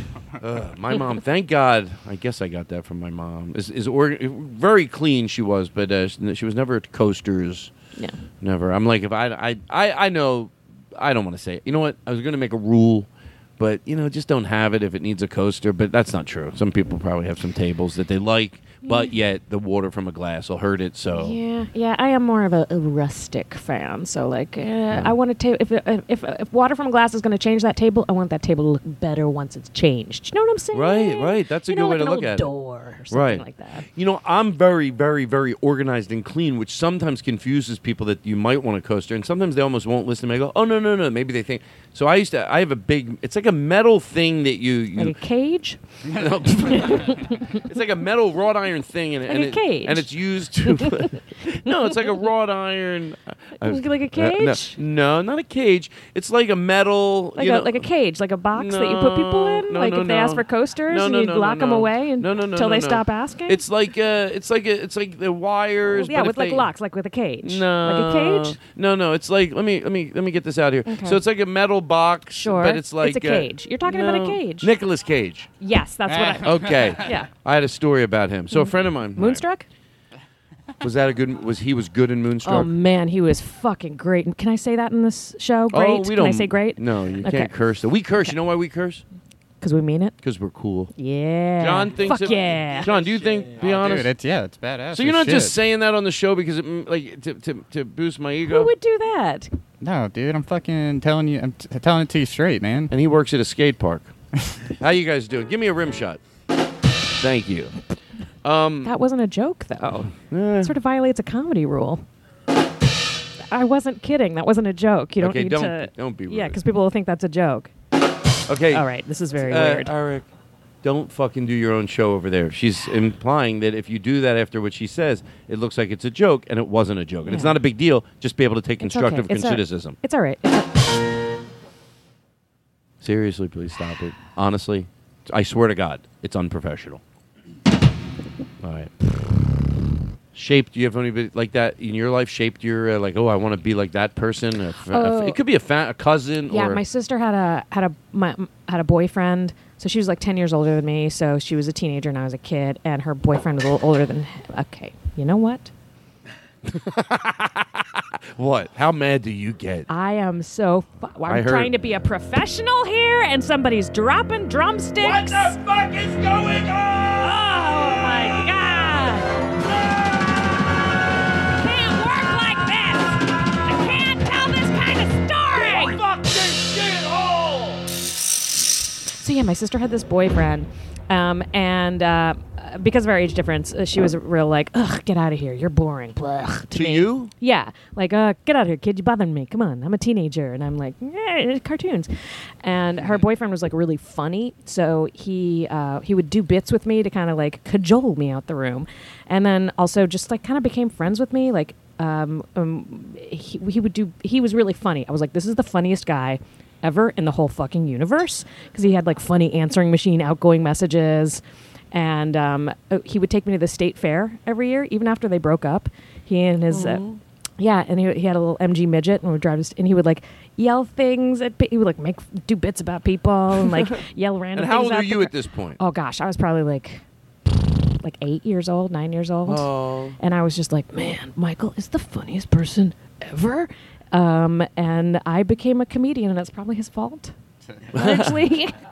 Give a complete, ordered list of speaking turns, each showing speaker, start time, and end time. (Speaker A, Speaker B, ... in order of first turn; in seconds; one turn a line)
Speaker A: 0.4-7.7
Speaker A: 8.4-21.4
Speaker B: 18.8-19.1
Speaker B: 21.1-33.9
Speaker A: 30.7-32.5
Speaker A: 33.1-45.2
Speaker B: 45.0-45.8
Speaker A: 46.1-57.9
Speaker B: 46.7-47.6
Speaker B: 49.3-50.1
Speaker B: 50.6-51.9
Speaker B: 53.6-54.8
Speaker B: 57.4-63.6
Speaker A: 58.5-66.7
Speaker B: 65.9-68.6
Speaker A: 67.4-75.5
Speaker B: 70.9-71.2
Speaker B: 72.4-74.7
Speaker B: 75.6-77.3
Speaker C: 76.1-77.0
Speaker A: 76.4-79.4
Speaker B: 78.5-79.7
Speaker A: 80.8-82.7
Speaker B: 82.4-87.5
Speaker A: 85.7-89.0
Speaker B: 89.6-90.2
Speaker A: 90.2-90.9
Speaker B: 91.0-92.9
Speaker A: 91.6-94.1
Speaker C: 92.4-95.5
Speaker A: 94.9-98.7
Speaker B: 98.5-99.5
Speaker C: 99.8-102.9
Speaker A: 102.9-104.1
Speaker A: 104.8-106.2
Speaker A: 107.2-107.8
Speaker A: 108.4-108.9
Speaker B: 108.8-112.0
Speaker A: 110.1-110.8
Speaker B: 113.5-117.7
Speaker A: 115.2-116.6
Speaker A: 118.5-120.3
Speaker B: 118.7-119.9
Speaker A: 120.8-130.0
Speaker B: 127.2-127.6
Speaker B: 128.8-130.7
Speaker A: 133.0-137.0
Speaker A: 138.6-139.1
Speaker A: 140.3-146.8
Speaker B: 144.9-145.4
Speaker B: 146.5-155.7
Speaker A: 156.7-159.9
Speaker B: 159.9-165.6
Speaker A: 161.3-161.7
Speaker A: 165.0-167.4
Speaker B: 167.2-169.3
Speaker B: 171.5-176.0
Speaker A: 175.5-177.8
Speaker B: 179.1-192.1
Speaker A: 186.7-187.3
Speaker B: 192.6-217.0
Speaker A: 216.7-217.2
Speaker B: 217.6-227.0
Speaker A: 224.5-225.8
Speaker B: 228.0-237.3
Speaker A: 229.4-230.2
Speaker B: 237.9-238.7
Speaker A: 237.9-238.3